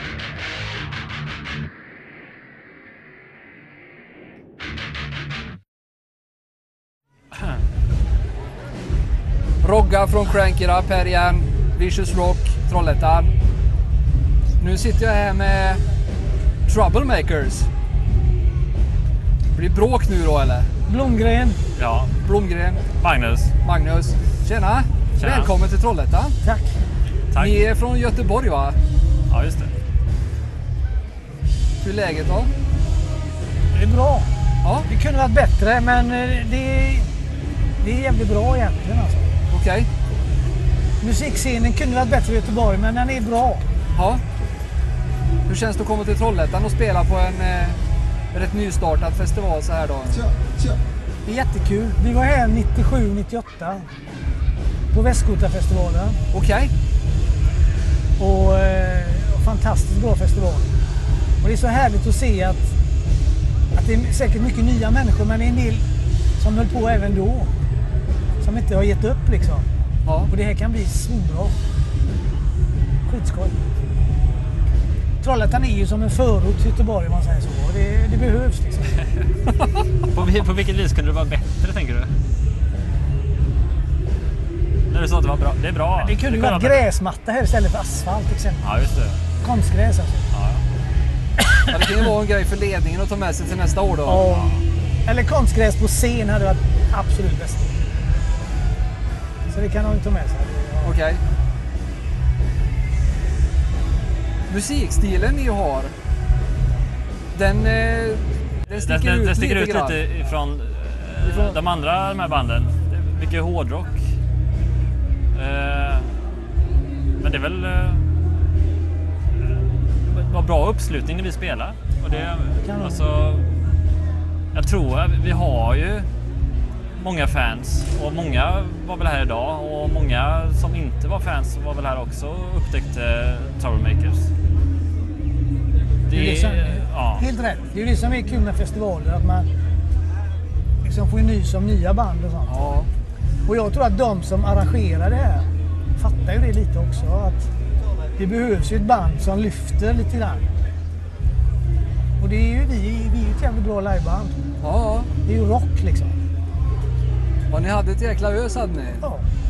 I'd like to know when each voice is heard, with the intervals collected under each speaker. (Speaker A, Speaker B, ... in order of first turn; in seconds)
Speaker A: 9.6-13.3, 14.6-15.8, 16.7-17.7, 19.6-20.7, 22.2-22.9, 23.6-26.4, 27.4-28.8, 31.8-32.5, 39.5-39.9, 44.0-44.2, 45.5-47.8, 48.3-50.3, 56.3-56.7, 70.1-70.3, 91.7-94.3, 100.8-101.2, 104.5-105.9, 107.3-110.0, 111.2-111.6, 142.5-142.9, 154.6-155.1, 157.5-159.0
Speaker B: 20.9-21.6, 26.4-26.7, 33.7-34.3, 34.9-37.1, 37.8-39.3, 41.0-43.6, 51.2-53.9, 54.9-56.2, 58.2-60.7, 61.4-62.7, 63.8-65.9, 66.4-67.5, 68.4-69.7, 70.3-71.5, 73.1-73.6, 75.2-79.0, 86.0-88.6, 89.4-90.2, 91.4-91.8, 94.1-97.7, 99.5-100.9, 122.6-123.0, 136.1-139.5, 140.8-142.8, 143.4-147.5, 148.2-150.4, 152.2-154.4, 155.2-156.1
Speaker C: 21.8-22.1, 23.0-23.5, 25.2-25.5, 27.3-27.6, 29.3-29.7, 80.1-82.1, 84.9-86.9, 88.6-89.2, 90.3-90.6, 94.3-94.6, 108.7-114.0, 115.3-116.1, 117.2-118.0, 120.0-123.5, 124.5-126.1, 127.0-134.3, 136.1-137.3